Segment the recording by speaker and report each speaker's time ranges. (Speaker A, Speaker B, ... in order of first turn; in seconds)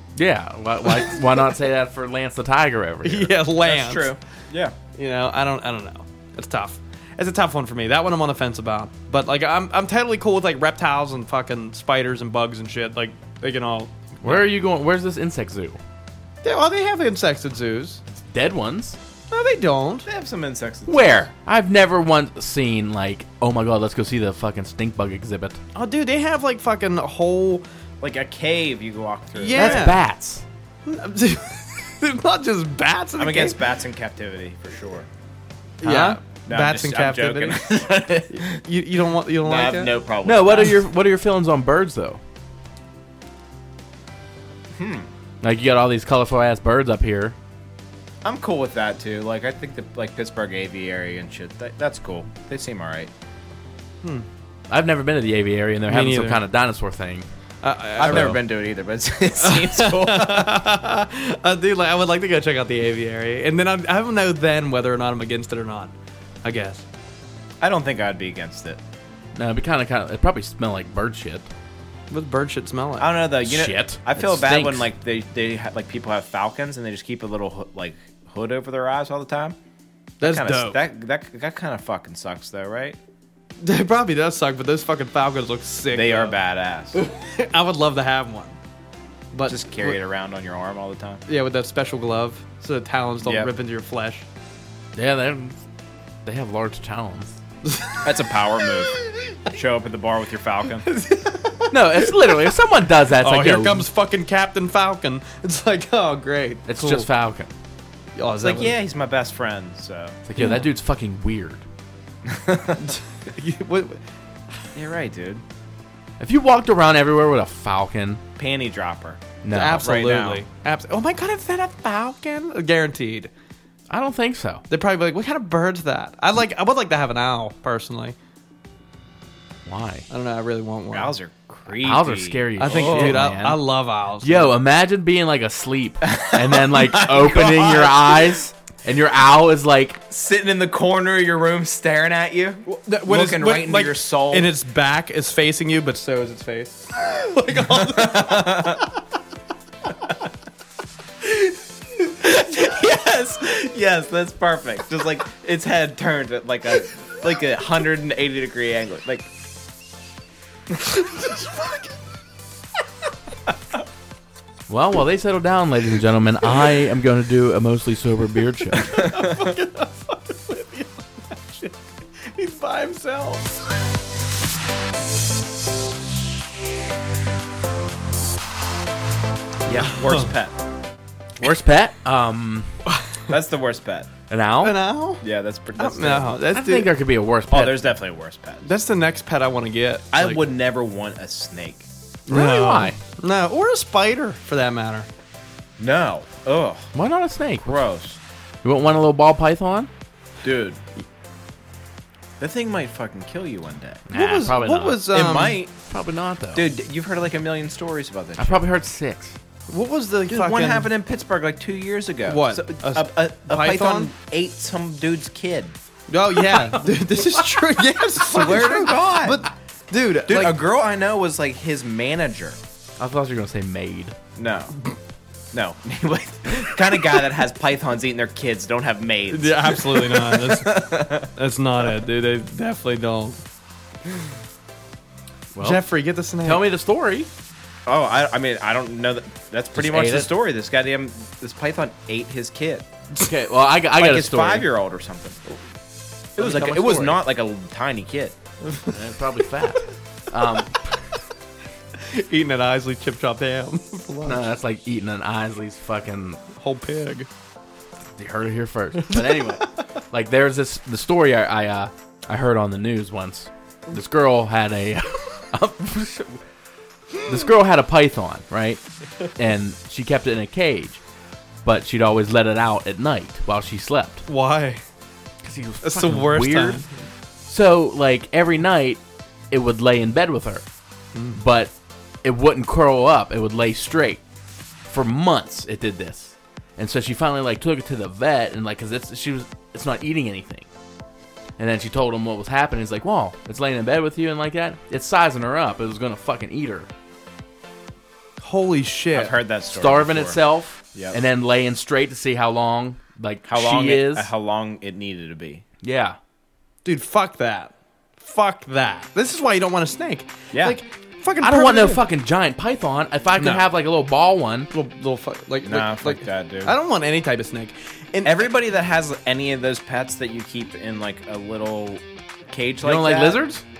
Speaker A: 0.1-3.3, 14.2-15.8, 18.1-19.0, 20.9-25.6, 29.5-30.4, 35.8-36.2, 40.2-42.2, 45.4-47.4, 54.7-57.2, 58.0-58.4, 69.3-71.5, 73.4-74.9, 94.9-95.6, 96.2-97.4, 101.7-103.8, 106.7-107.5, 110.2-111.6, 116.2-118.2, 119.4-119.9, 123.9-124.6, 129.6-130.1, 131.8-133.6, 134.2-140.0, 164.7-169.0, 179.7-180.0, 181.4-182.7, 184.3-184.8, 186.5-187.8, 192.3-193.0, 196.9-197.8, 198.6-199.9, 204.1-205.1, 205.9-206.6, 208.4-209.4, 216.5-216.8, 223.0-224.2, 235.5-235.9, 236.4-237.3, 239.7-240.3, 243.2-244.7, 246.4-247.2, 248.9-250.9, 254.2-256.4, 258.2-266.4, 267.2-268.8, 269.3-271.0, 271.6-274.2, 275.4-276.8, 277.4-280.6, 281.3-284.2, 284.9-290.7, 291.6-296.9, 299.7-304.3, 305.8-306.2, 311.4-314.7, 322.8-323.6
Speaker B: 3.0-4.1, 4.9-13.9, 16.4-18.0, 19.3-20.1, 25.7-27.6, 29.4-30.0, 30.9-33.6, 35.8-37.8, 38.3-39.9, 55.9-56.4, 57.6-58.3, 59.4-65.9, 66.4-66.8, 72.1-73.1, 80.2-80.8, 83.6-86.3, 86.9-88.6, 89.3-90.0, 91.3-94.2, 97.6-98.1, 98.8-99.3, 100.8-102.5, 103.2-107.1, 108.2-108.7, 110.4-110.6, 112.9-114.0, 119.5-123.3, 124.7-128.2, 130.1-131.1, 132.6-134.6, 142.7-148.8, 160.9-161.9, 168.8-173.6, 184.6-185.2, 185.8-186.9, 188.6-190.5, 192.3-195.1, 204.1-205.6, 209.7-210.9, 212.3-214.1, 216.1-220.6, 229.3-233.4, 235.6-236.7, 251.9-254.4, 256.5-257.3, 274.3-274.8, 275.8-276.9, 281.1-281.4, 298.4-299.3, 306.8-312.0, 313.4-313.6, 314.7-318.5
Speaker C: 3.6-4.7, 20.1-21.3, 28.0-29.9, 33.2-35.1, 36.5-38.6, 39.4-40.8, 44.7-45.1, 48.2-53.1, 58.0-60.5, 67.6-68.8, 73.0-79.5, 80.2-83.0, 85.9-87.0, 89.5-91.2, 93.2-93.5, 98.0-100.9, 108.4-110.2, 112.2-112.9, 114.7-115.4, 118.4-120.4, 130.9-133.3, 136.0-138.3, 140.1-144.5, 147.8-148.8, 152.1-159.3, 179.8-180.5, 183.3-184.1, 185.2-186.4, 187.5-188.7, 190.1-191.8, 195.8-196.9, 197.6-198.2, 200.4-200.8, 202.4-204.0, 205.1-205.7, 206.5-208.6, 210.3-215.7, 218.2-219.4, 220.3-222.6, 224.3-224.8, 225.5-231.3, 237.8-242.8, 243.9-245.4, 246.4-248.3, 299.1-300.4, 300.9-301.2, 303.4-305.6, 310.5-310.8, 315.6-316.7, 318.2-323.4